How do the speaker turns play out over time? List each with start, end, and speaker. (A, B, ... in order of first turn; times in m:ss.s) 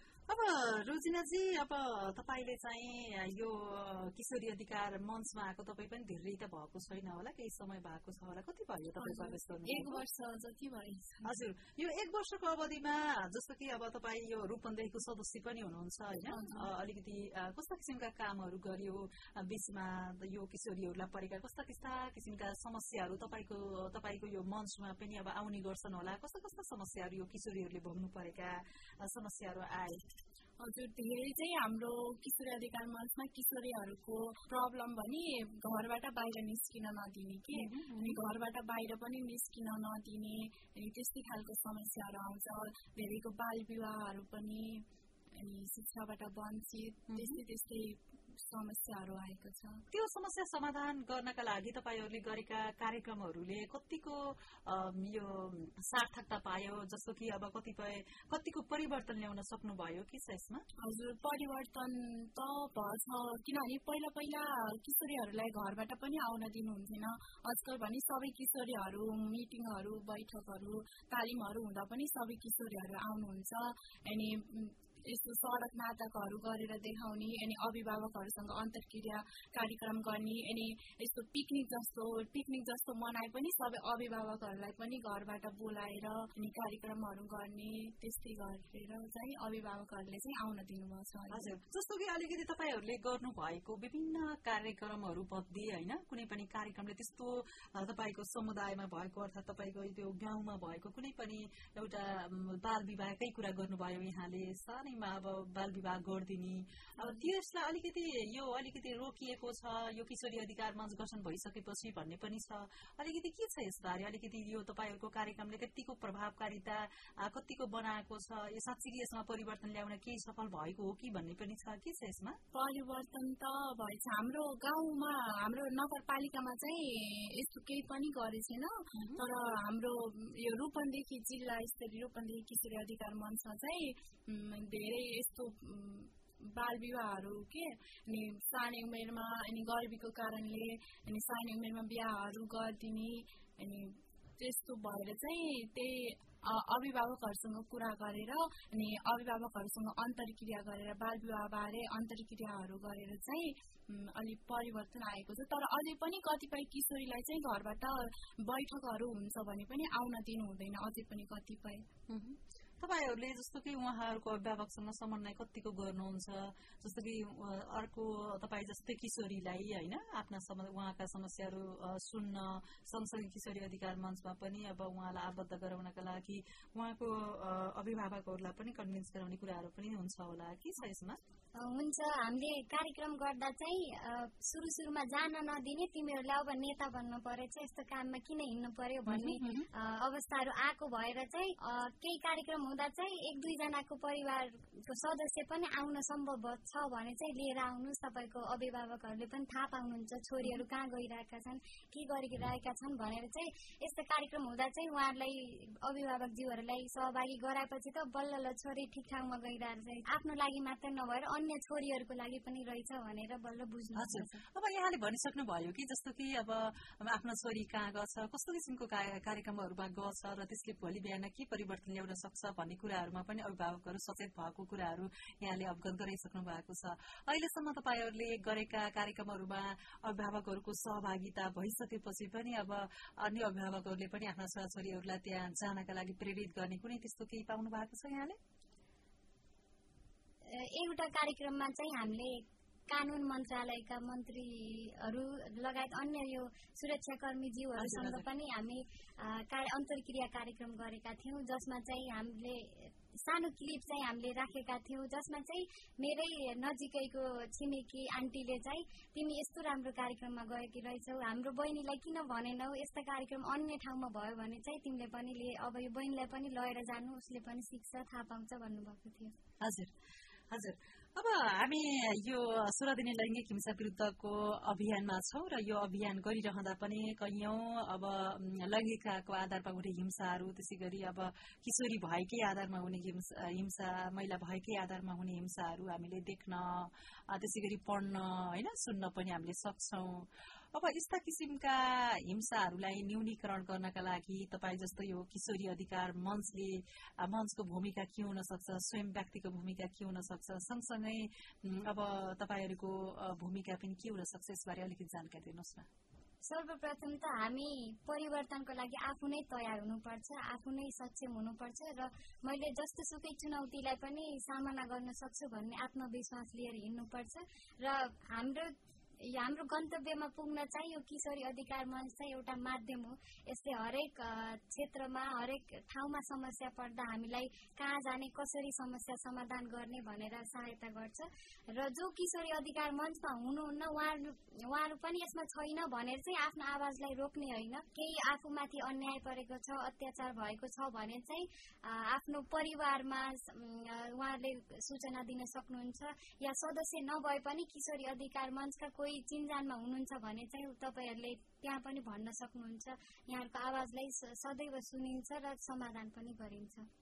0:00.3-0:10.0 A
0:09.0-0:11.3 B
0:11.2-0:30.0 A
0:16.3-0:16.7 B
0:30.6-0:49.8 B
0:37.5-0:38.2 A
0:47.1-0:47.4 A
0:49.9-1:00.6 A
1:00.8-1:31.5 B
1:31.3-2:02.4 A
1:47.0-1:47.3 B
2:02.5-2:41.9 B
2:09.0-2:09.2 A
2:42.1-3:01.2 A
3:01.6-3:34.4 C
3:09.1-3:09.7 A
3:34.0-3:58.4 A
4:00.5-4:29.3 C
4:07.8-4:08.2 A
4:29.6-4:29.9 A
4:30.5-5:05.9 A
5:06.4-5:56.9 C